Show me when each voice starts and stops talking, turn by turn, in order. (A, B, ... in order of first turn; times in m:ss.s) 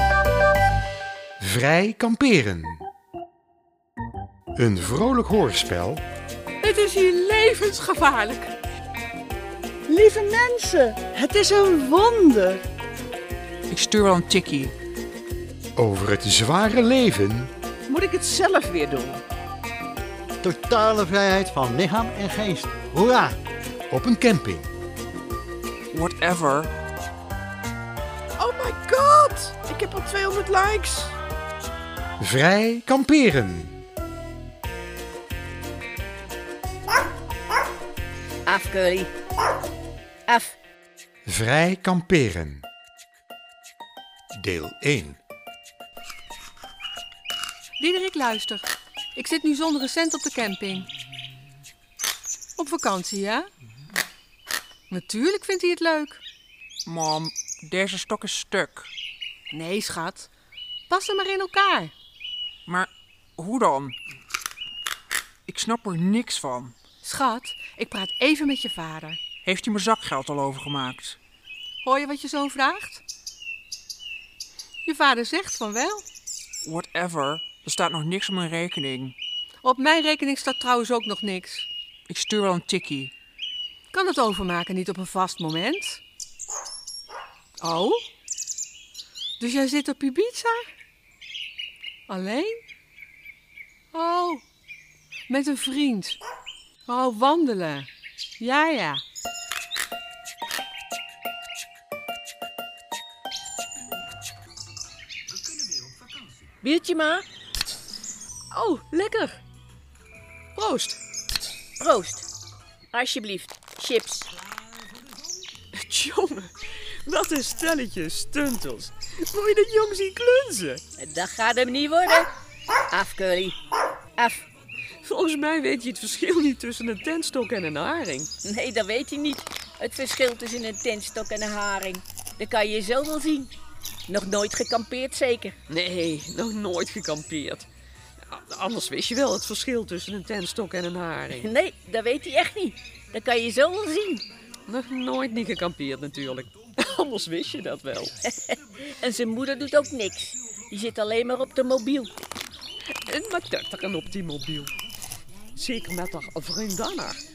0:01.4-0:02.8 A
0:04.6-0:06.0 A
0:06.6-0:08.5 B
0:09.9-0:12.6 C
0:13.7-0:14.7 D
0:15.8-0:17.5 A
0:20.4-0:23.4 E
0:23.9-0:24.7 A
0:25.9-0:26.7 D
0:32.2-0:33.7 A
0:38.5-0:39.1 F
0:40.3-0:40.6 F
0:41.3-0:42.6 A
0:44.4-0:45.2 A
0:47.8-0:50.9 B
0:52.6-0:53.5 B
0:54.9-0:56.2 B
0:56.8-0:58.9 D
0:59.5-1:00.3 B
1:00.9-1:01.9 B
1:02.7-1:04.0 D
1:05.5-1:06.8 D
1:07.0-1:09.2 B
1:09.4-1:11.2 D
1:11.8-1:13.0 B
1:14.8-1:16.0 B
1:16.6-1:19.2 D
1:19.6-1:21.7 B
1:22.1-1:23.1 D
1:23.9-1:26.0 B
1:27.6-1:28.0 B
1:29.4-1:30.7 B
1:32.1-1:32.6 B
1:33.9-1:34.4 B
1:35.3-1:36.2 B
1:36.9-1:37.9 B
1:38.4-1:39.0 B
1:46.6-1:47.3 F
1:48.5-1:49.4 G
1:50.6-1:51.0 G
1:51.8-1:52.3 F
1:52.9-1:54.3 F
1:55.7-1:56.5 G
1:57.0-2:00.8 G
2:01.0-2:02.3 F
2:02.9-2:03.6 F
2:04.2-2:04.5 F
2:05.0-2:08.3 G
2:08.4-2:13.5 F
2:14.1-2:15.6 F
2:15.7-2:17.7 G
2:18.3-2:21.5 G
2:21.3-2:24.2 F
2:24.7-2:28.1 G
2:29.0-2:32.1 F
2:33.1-2:34.7 G
2:35.6-2:37.2 G